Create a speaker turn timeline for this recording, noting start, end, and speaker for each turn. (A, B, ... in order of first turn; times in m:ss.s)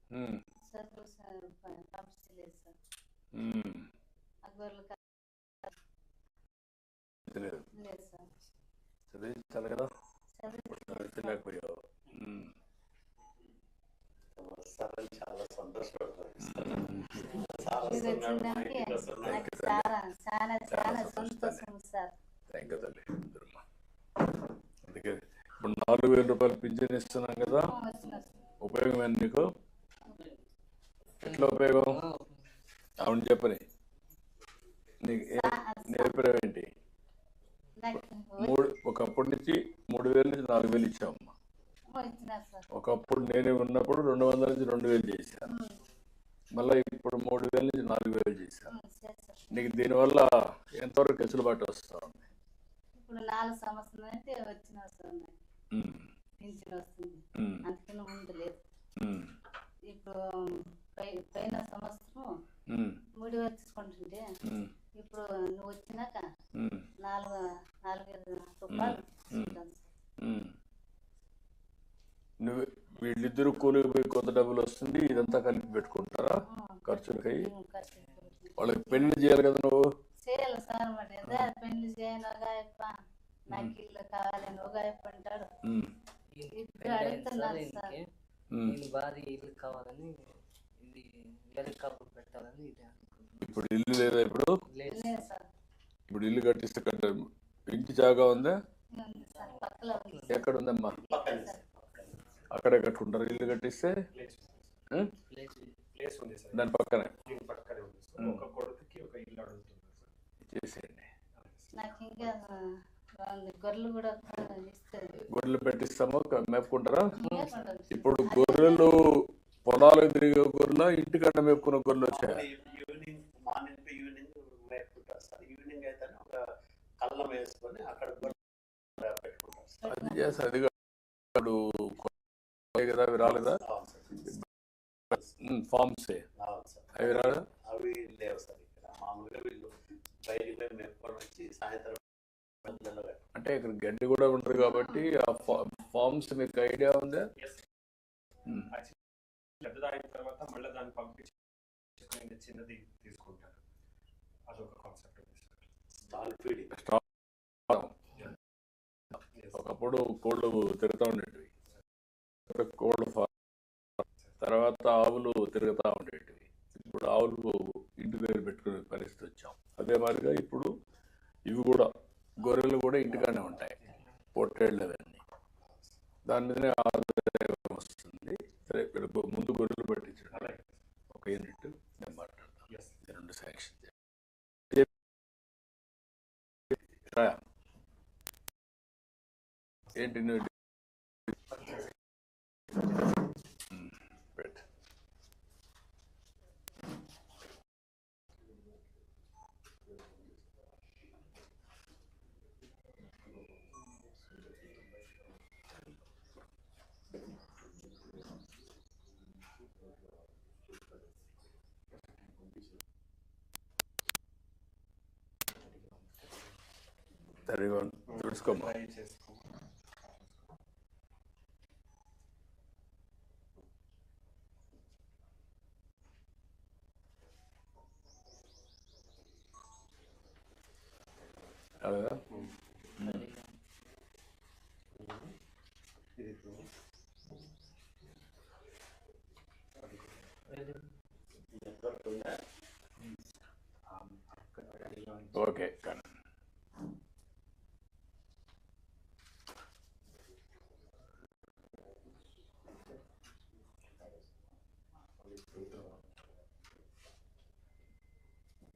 0:00.1-0:00.4 A
0:00.7-0:02.8 B
0:03.4-0:03.9 A
0:04.4-0:05.0 B
0:07.3-0:07.6 A
0:07.8-0:08.3 B
0:09.1-0:09.9 A
0:10.4-0:11.4 B
0:10.7-0:12.5 A
0:14.4-0:19.4 C
0:16.4-0:17.2 A
0:17.7-0:22.1 B
0:19.2-0:19.9 A
0:20.7-0:21.7 A
0:22.5-0:23.6 A
0:24.8-0:27.7 A
0:27.5-0:28.3 B
0:28.6-0:29.4 A
0:31.2-0:32.4 D
0:31.2-0:32.0 A
0:33.0-0:33.6 A
0:35.0-0:36.7 A
0:35.3-0:36.2 B
0:37.8-0:38.6 B
0:38.4-0:41.3 A
0:41.9-0:42.6 B
0:42.7-0:45.5 A
0:45.5-0:45.8 B
0:46.6-0:48.7 A
0:48.7-0:49.4 B
0:49.5-0:52.3 A
0:53.0-0:55.3 B
0:55.7-0:56.1 A
0:56.4-0:58.6 B
0:57.4-0:57.6 A
0:59.0-0:59.3 A
0:59.9-1:02.3 B
1:02.7-1:03.0 A
1:03.2-1:04.2 B
1:04.5-1:04.7 A
1:05.0-1:06.3 B
1:06.6-1:06.9 A
1:07.0-1:09.9 B
1:08.7-1:09.6 A
1:10.2-1:10.5 A
1:12.4-1:16.4 A
1:16.5-1:19.2 B
1:16.9-1:17.5 A
1:18.6-1:19.9 A
1:20.2-1:22.9 B
1:23.5-1:25.5 B
1:25.6-1:25.9 A
1:26.3-1:28.1 D
1:26.6-1:28.0 B
1:28.5-1:28.8 A
1:28.6-1:33.5 D
1:33.4-1:34.5 A
1:34.7-1:35.1 D
1:34.9-1:35.4 B
1:36.1-1:38.6 A
1:39.0-1:40.3 B
1:39.3-1:40.5 D
1:40.3-1:41.0 A
1:41.0-1:42.2 C
1:41.1-1:41.6 B
1:42.5-1:44.0 A
1:44.1-1:44.8 E
1:45.3-1:45.8 D
1:45.8-1:46.6 E
1:46.5-1:47.1 A
1:47.2-1:50.1 E
1:50.5-1:51.1 A
1:51.4-1:51.7 E
1:51.7-1:52.6 B
1:53.2-1:55.2 B
1:55.3-1:57.0 A
1:57.2-1:58.9 B
1:57.2-1:57.5 D
1:57.9-1:59.1 A
1:59.7-2:02.4 A
2:02.1-2:06.4 C
2:07.0-2:08.4 C
2:09.0-2:09.8 C
2:09.8-2:10.4 B
2:09.9-2:10.7 A
2:11.4-2:12.1 A
2:12.7-2:13.6 A
2:13.6-2:14.3 C
2:15.4-2:16.2 A
2:16.4-2:19.7 C
2:17.0-2:17.4 A
2:20.2-2:22.0 C
2:22.6-2:23.2 C
2:23.4-2:27.3 A
2:24.6-2:25.1 B
2:27.4-2:27.7 E
2:28.7-2:29.0 E
2:29.6-2:31.4 E
2:32.0-2:33.6 E
2:34.5-2:35.7 E
2:36.0-2:36.7 C
2:36.7-2:37.0 A
2:37.7-2:37.9 A
2:39.3-2:39.6 E
2:39.6-2:41.5 A
2:42.5-2:43.3 A
2:44.4-2:50.7 A
2:51.5-2:51.9 A
2:52.4-2:53.8 A
2:53.1-2:53.6 C
2:53.7-2:54.0 E
2:54.4-2:55.2 A
2:56.3-3:00.5 A
3:00.3-3:00.8 E
3:01.1-3:03.9 A
3:02.7-3:03.0 E
3:07.1-3:07.4 A
3:10.0-3:10.5 A
3:11.5-3:11.9 E
3:13.7-3:14.6 A
3:35.6-3:36.6 E
3:37.5-3:38.8 A
3:38.1-3:40.2 E
3:51.8-3:52.2 A
3:53.0-3:53.5 D
3:53.0-3:53.3 A
3:55.0-3:55.3 E
3:56.2-3:56.6 C
3:56.2-3:56.6 E
3:59.8-4:00.3 E
4:00.5-4:00.9 D
4:01.5-4:02.4 C
4:03.9-4:05.4 E
4:05.3-4:06.0 A
4:15.4-4:15.9 C